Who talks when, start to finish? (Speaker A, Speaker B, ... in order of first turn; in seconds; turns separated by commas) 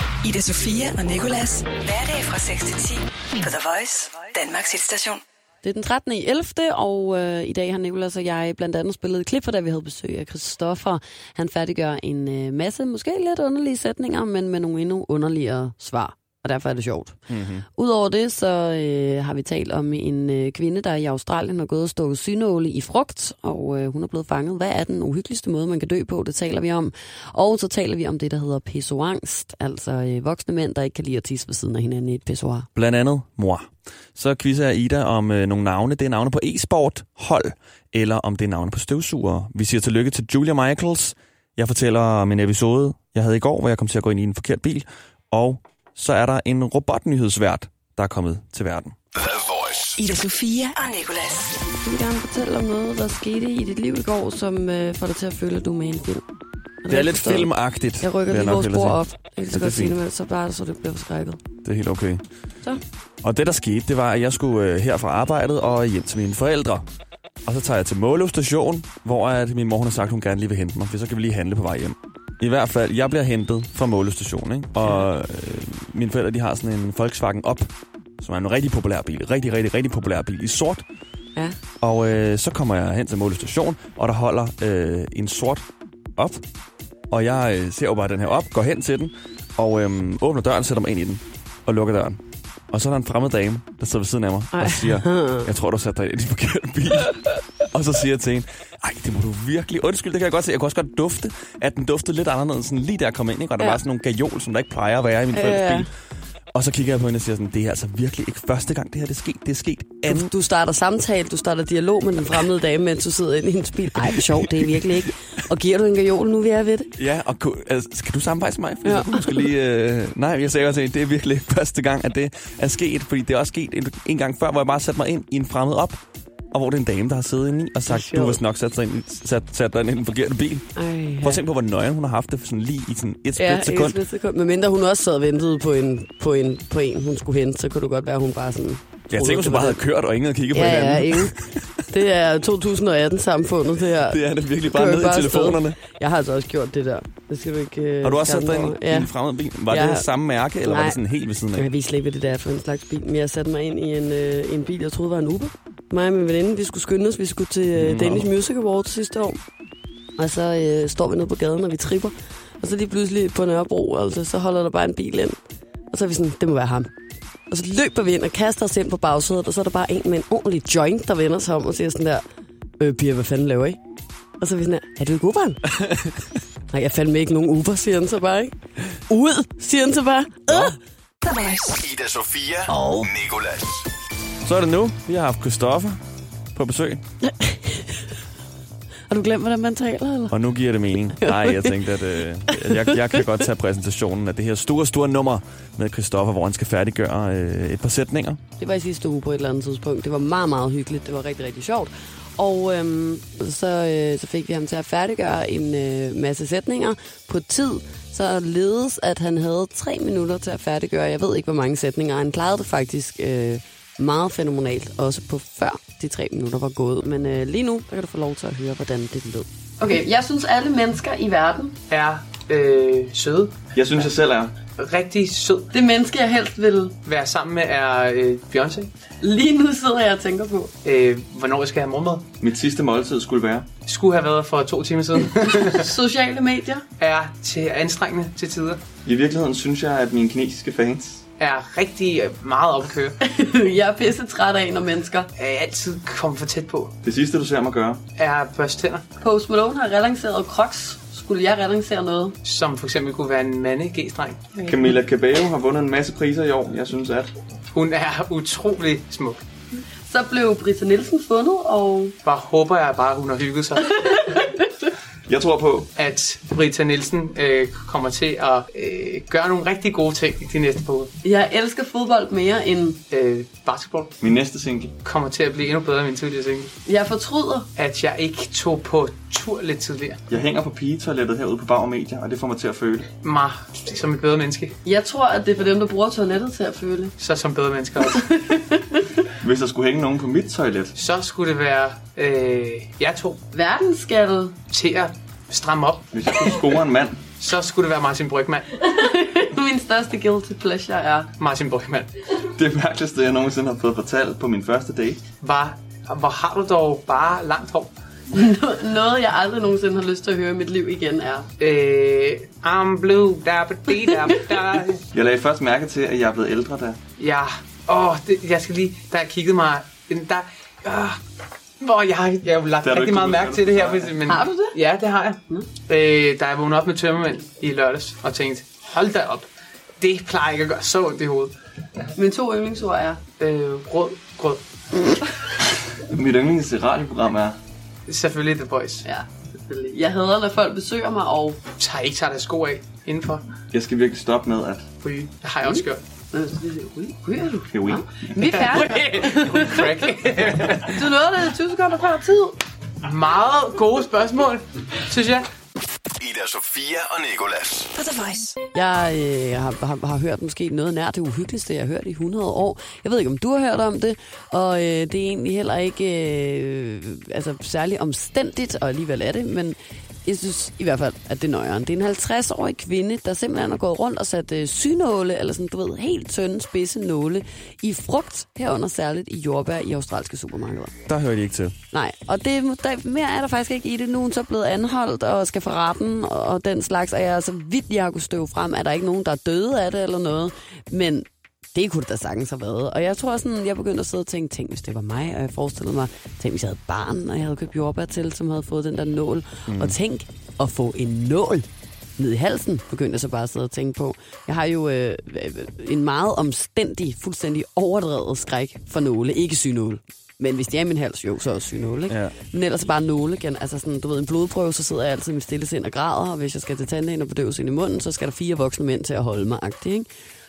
Speaker A: 0.2-5.2, Speaker B: 5.6-17.2, Speaker C: 17.3-17.6, Speaker B: 17.8-32.7, Speaker C: 32.7-49.0, Speaker D: 49.1-50.0, Speaker A: 50.0-51.5, Speaker B: 51.8-56.2, Speaker B: 56.8-61.4, Speaker C: 56.9-59.0, Speaker C: 59.5-60.0, Speaker C: 61.6-62.2, Speaker C: 63.2-66.8, Speaker C: 67.5-77.7, Speaker C: 78.2-80.8, Speaker C: 81.8-85.6, Speaker C: 87.1-92.2, Speaker C: 92.7-105.9, Speaker B: 94.5-95.5, Speaker B: 105.3-105.9, Speaker C: 106.5-110.3, Speaker B: 110.1-116.9, Speaker C: 117.0-126.0, Speaker B: 118.8-119.5, Speaker C: 126.5-130.7, Speaker B: 127.9-128.4, Speaker B: 130.8-131.4, Speaker C: 131.2-134.0, Speaker B: 133.3-139.8, Speaker C: 139.1-141.7, Speaker B: 140.5-141.3, Speaker B: 141.9-149.1, Speaker C: 144.0-145.8, Speaker C: 148.0-151.7, Speaker B: 149.7-150.1, Speaker B: 150.6-151.0, Speaker B: 151.5-159.4, Speaker C: 157.8-158.3, Speaker B: 160.2-165.4, Speaker B: 165.9-166.9, Speaker B: 167.5-172.2, Speaker B: 172.8-173.8, Speaker B: 174.4-175.7, Speaker B: 176.7-178.5, Speaker B: 179.1-180.8, Speaker A: 181.2-181.8, Speaker D: 181.8-183.9, Speaker B: 182.7-183.1, Speaker C: 184.4-186.0, Speaker C: 186.5-187.0, Speaker B: 187.3-187.9, Speaker B: 189.1-190.4, Speaker C: 190.3-198.4, Speaker B: 191.2-191.8, Speaker B: 198.6-221.8, Speaker E: 221.9-223.6, Speaker C: 223.7-224.6, Speaker E: 224.8-225.7, Speaker B: 225.7-227.0, Speaker E: 227.0-228.9, Speaker B: 229.2-230.7, Speaker E: 230.8-232.3, Speaker C: 232.4-233.7, Speaker E: 233.8-235.8, Speaker B: 235.4-236.8, Speaker E: 237.0-238.8, Speaker C: 239.0-241.2, Speaker E: 241.4-243.1, Speaker B: 243.2-245.3, Speaker E: 245.3-246.9, Speaker C: 247.0-248.0, Speaker E: 248.1-249.0, Speaker B: 249.2-252.3, Speaker E: 252.4-254.5, Speaker C: 254.6-257.3, Speaker E: 257.7-259.4, Speaker B: 260.1-262.1, Speaker E: 262.2-264.1, Speaker B: 264.0-264.6, Speaker C: 265.3-265.9, Speaker E: 266.0-271.1, Speaker B: 271.2-273.0, Speaker E: 273.1-274.1, Speaker C: 274.2-274.9, Speaker E: 275.0-276.7, Speaker B: 276.9-277.7, Speaker E: 277.8-280.2, Speaker C: 280.3-283.1, Speaker E: 283.2-284.8, Speaker B: 284.8-287.1, Speaker E: 287.2-288.1, Speaker B: 288.0-289.2, Speaker C: 289.4-290.9, Speaker E: 290.9-293.4, Speaker B: 293.5-294.5, Speaker E: 294.7-296.1, Speaker C: 296.1-297.2, Speaker E: 297.3-298.6, Speaker B: 298.8-301.3, Speaker E: 301.4-302.1, Speaker C: 302.4-305.2, Speaker E: 305.4-307.9, Speaker B: 308.3-311.5, Speaker E: 311.6-315.0, Speaker C: 315.1-317.0, Speaker E: 317.2-321.2, Speaker E: 321.8-329.5, Speaker C: 322.8-324.1, Speaker B: 324.2-324.8, Speaker E: 330.0-331.5, Speaker B: 332.1-333.2, Speaker E: 333.4-334.6, Speaker C: 335.9-337.6, Speaker E: 338.1-339.1, Speaker B: 339.0-341.6, Speaker E: 341.8-343.4, Speaker C: 343.7-344.9, Speaker E: 345.0-346.0, Speaker B: 345.6-350.0, Speaker C: 347.7-348.0, Speaker E: 348.4-351.0, Speaker B: 350.9-352.6, Speaker E: 353.0-355.5, Speaker D: 356.2-357.9, Speaker A: 357.9-358.5, Speaker B: 358.7-380.9, Speaker C: 381.1-381.7, Speaker B: 381.9-401.6, Speaker C: 399.7-399.9, Speaker B: 402.2-420.1, Speaker C: 412.1-412.4